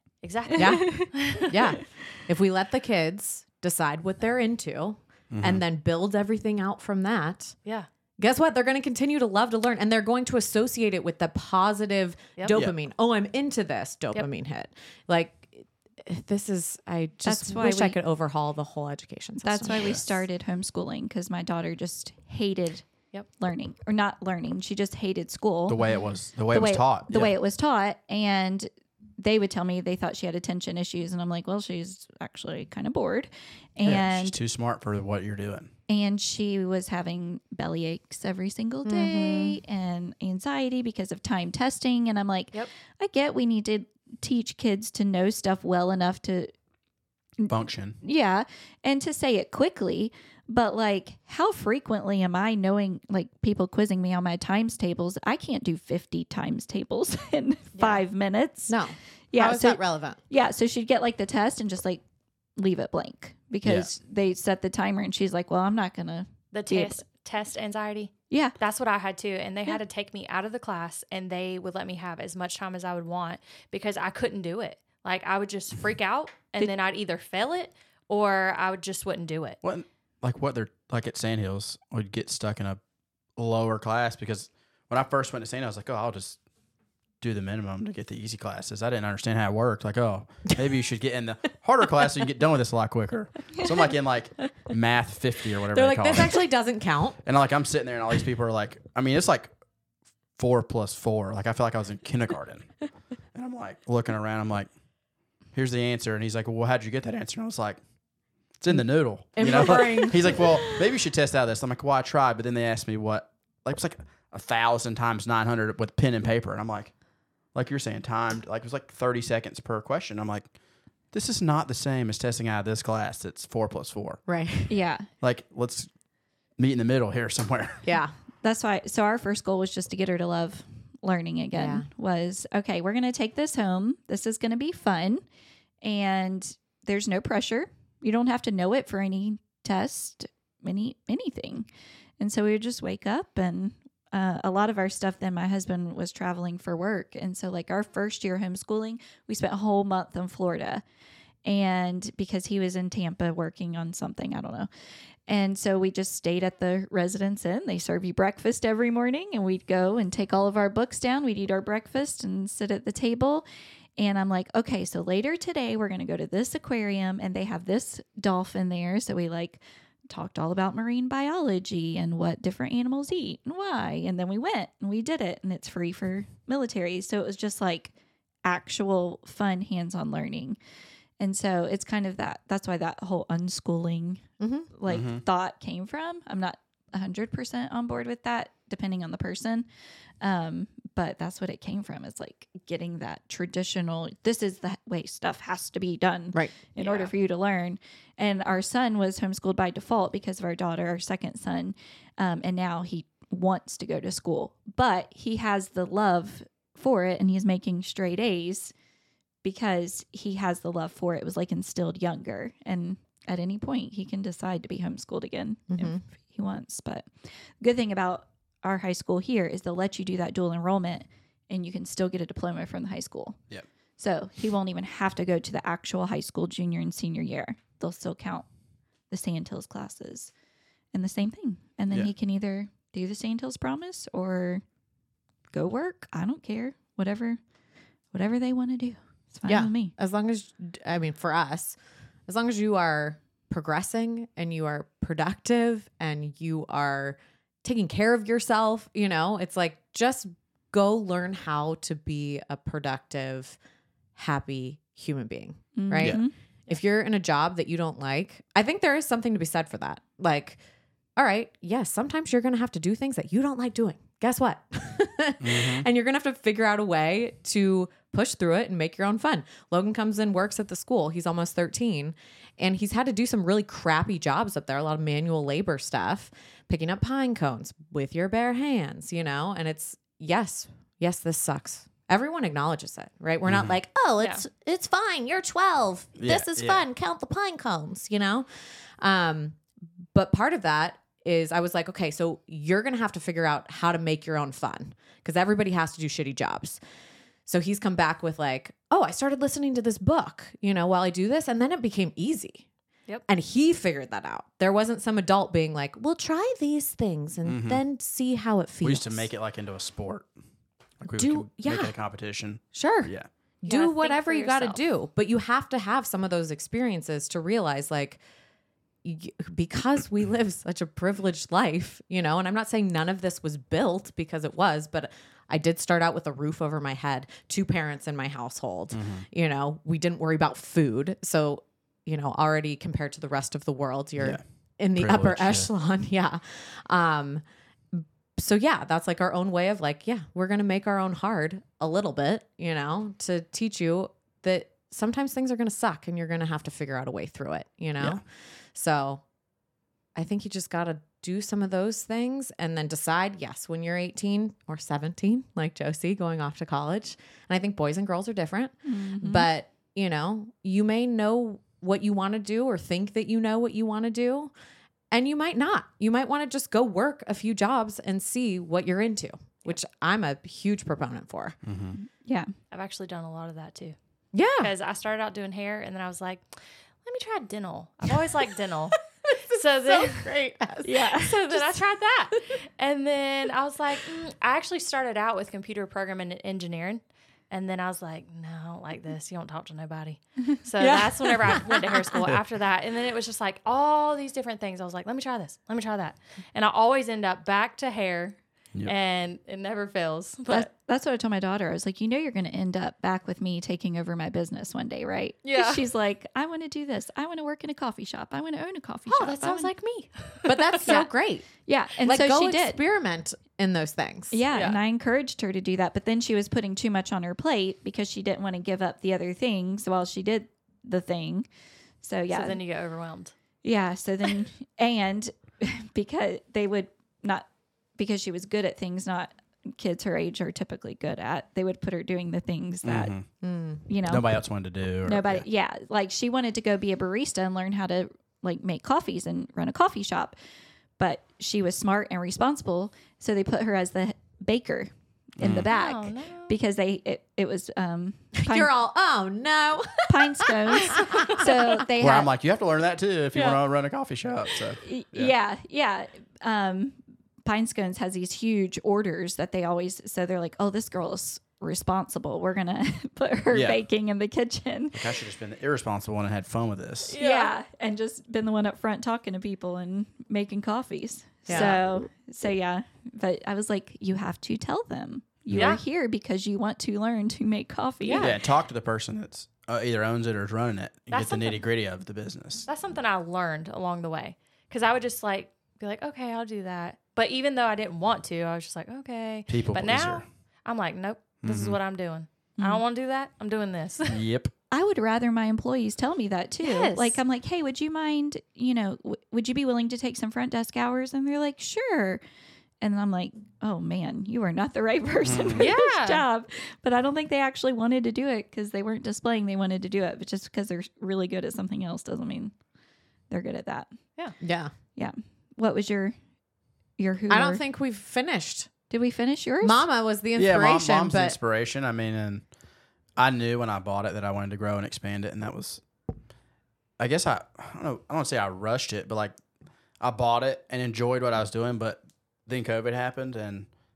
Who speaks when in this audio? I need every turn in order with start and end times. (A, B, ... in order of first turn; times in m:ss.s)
0:00.2-0:01.5 A
0:00.5-0:01.5 B
0:00.6-0:07.5 C
0:05.3-0:05.6 D
0:08.2-0:20.2 C
0:12.5-0:12.8 D
0:17.2-0:18.0 B
0:19.4-0:22.8 B
0:23.4-0:25.8 B
0:25.7-0:27.3 D
0:26.5-0:34.4 B
0:33.8-0:35.7 D
0:35.9-0:46.5 B
0:38.8-0:39.6 C
0:47.4-0:58.8 B
0:47.5-0:48.0 D
0:57.8-0:58.0 A
0:58.7-1:00.2 C
0:59.3-1:02.0 B
1:02.6-1:07.0 B
1:03.6-1:03.9 D
1:06.5-1:19.6 A
1:08.3-1:08.6 B
1:19.6-1:22.8 D
1:23.4-1:26.4 D
1:27.2-1:36.4 D
1:35.7-1:37.2 C
1:37.2-1:39.5 D
1:40.4-1:42.7 D
1:43.3-1:44.7 D
1:45.5-1:47.8 D
1:48.6-1:56.9 D
1:49.3-1:50.7 C
1:49.4-1:50.6 B
1:57.5-2:00.5 D
2:01.1-2:04.2 D
2:04.3-2:04.8 C
2:04.7-2:05.1 B
2:05.2-2:05.9 D
2:06.6-2:07.8 D
2:07.8-2:08.1 C
2:08.4-2:15.2 B
2:11.5-2:11.9 C
2:15.8-2:21.7 B
2:22.2-2:30.8 B
2:31.4-2:34.7 B
2:35.3-2:43.4 B
2:44.0-2:57.9 B
2:58.4-3:00.6 B
3:01.2-3:09.6 B
3:04.4-3:04.7 C
3:04.9-3:05.2 D
3:10.2-3:28.7 B
3:16.8-3:17.1 A
3:29.4-3:37.1 B
3:35.7-3:36.0 C
3:37.6-3:43.4 B
3:44.0-3:48.4 B
3:49.1-3:50.3 B
3:50.9-3:54.6 B
3:55.5-3:57.4 B
3:58.1-3:59.9 B
3:59.5-4:13.6 C
4:14.2-4:20.6 C
4:15.8-4:16.3 B
4:21.2-4:48.5 C
4:25.4-4:25.9 D
4:43.4-4:43.8 D
4:46.2-4:46.8 D
4:49.0-4:49.6 C
4:50.1-4:56.8 C
4:57.4-5:02.7 C
5:03.3-5:09.3 C
5:07.4-5:07.8 D
5:08.8-5:10.3 D
5:11.0-5:13.3 D
5:11.2-5:11.9 C
5:12.7-5:18.2 C
5:13.6-5:14.8 A
5:19.0-5:49.2 C
5:28.9-5:29.2 D
5:34.9-5:35.7 D
5:50.1-6:04.5 C
5:58.8-5:59.5 B
6:05.1-6:11.6 C
6:11.6-6:12.0 D
6:12.0-6:12.5 B
6:12.7-6:13.9 A
6:14.3-6:14.7 C
6:14.6-6:19.0 A
6:19.3-6:21.2 C
6:19.5-6:20.3 A
6:20.8-6:21.6 B
6:21.0-6:40.7 A
6:30.8-6:32.3 C
6:40.5-6:49.7 B
6:45.4-6:45.8 A
6:49.1-6:51.0 A
6:50.4-6:51.5 C
6:51.6-6:52.8 B
6:52.0-6:54.4 C
6:54.3-7:01.5 B
6:54.5-6:54.8 A
7:02.0-7:02.6 B
7:02.3-7:03.3 A
7:03.6-7:13.1 B
7:12.8-7:13.2 D
7:13.4-7:13.8 C
7:13.9-7:14.3 B
7:14.0-7:15.4 D
7:15.0-7:20.4 B
7:21.0-7:28.7 B
7:25.4-7:25.7 D
7:25.6-7:26.5 A
7:28.3-7:31.5 C
7:30.1-7:32.3 B
7:30.8-7:31.6 A
7:32.0-7:35.3 D
7:34.8-7:45.2 B
7:43.5-7:43.8 D
7:44.9-7:47.2 D
7:47.1-7:47.5 A
7:47.2-7:58.4 B
7:51.5-7:51.8 C
7:55.5-7:55.8 A
7:58.0-7:58.4 A
7:58.2-8:02.7 D
8:01.1-8:01.6 A
8:02.6-8:14.2 A
8:09.5-8:10.2 D
8:11.4-8:11.8 D
8:14.1-8:14.5 D
8:14.7-8:22.2 B
8:16.6-8:17.2 A
8:22.8-8:32.5 B
8:25.2-8:25.7 D
8:25.6-8:26.2 A
8:33.3-8:33.9 B
8:34.4-8:34.7 C
8:35.0-8:36.1 B
8:37.0-8:37.6 B
8:37.3-8:38.7 C
8:38.9-8:39.8 B
8:39.6-8:41.4 C
8:40.4-8:42.4 D
8:43.2-8:45.8 D
8:47.0-8:49.4 D
8:50.0-8:53.7 D